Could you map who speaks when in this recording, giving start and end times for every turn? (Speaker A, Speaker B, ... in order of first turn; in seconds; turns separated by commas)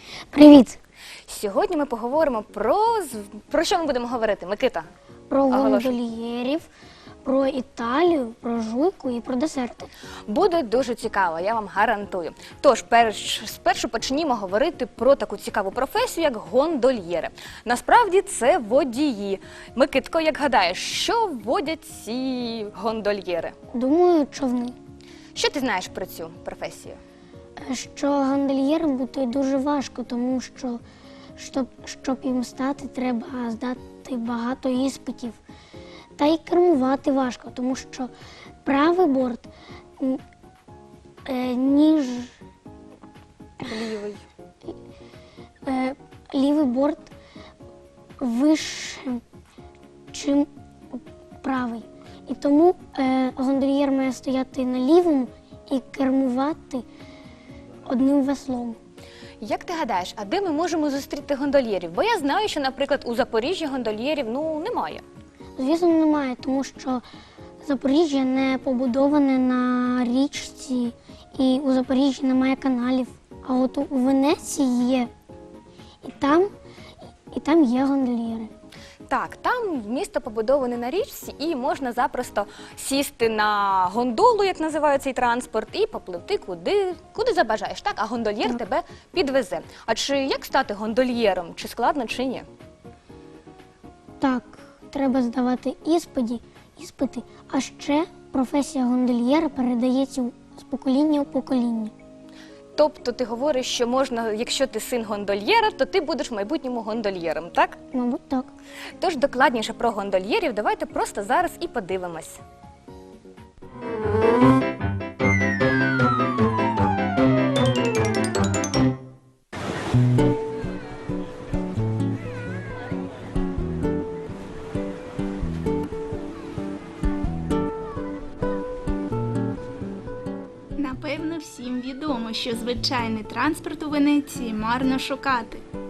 Speaker A: 0.3-0.8, Speaker B: 1.3-4.9, Speaker A: 5.3-6.7, Speaker B: 5.5-5.9, Speaker A: 7.2-9.9, Speaker B: 10.3-23.5, Speaker A: 23.7-24.8, Speaker B: 25.4-27.0, Speaker A: 27.6-30.8, Speaker A: 31.4-35.4, Speaker A: 36.2-38.1, Speaker A: 38.6-39.5, Speaker A: 41.3-42.3, Speaker B: 43.7-44.2, Speaker A: 45.7-47.1, Speaker A: 48.2-49.2, Speaker A: 50.1-50.5, Speaker A: 51.4-56.9, Speaker A: 57.9-58.8, Speaker B: 59.4-65.0, Speaker A: 65.6-67.0, Speaker A: 67.6-75.1, Speaker A: 76.0-76.5, Speaker A: 77.3-78.5, Speaker B: 79.1-92.5, Speaker A: 94.2-101.9, Speaker B: 102.8-107.8, Speaker A: 107.9-108.5, Speaker B: 109.0-112.4, Speaker C: 130.8-135.7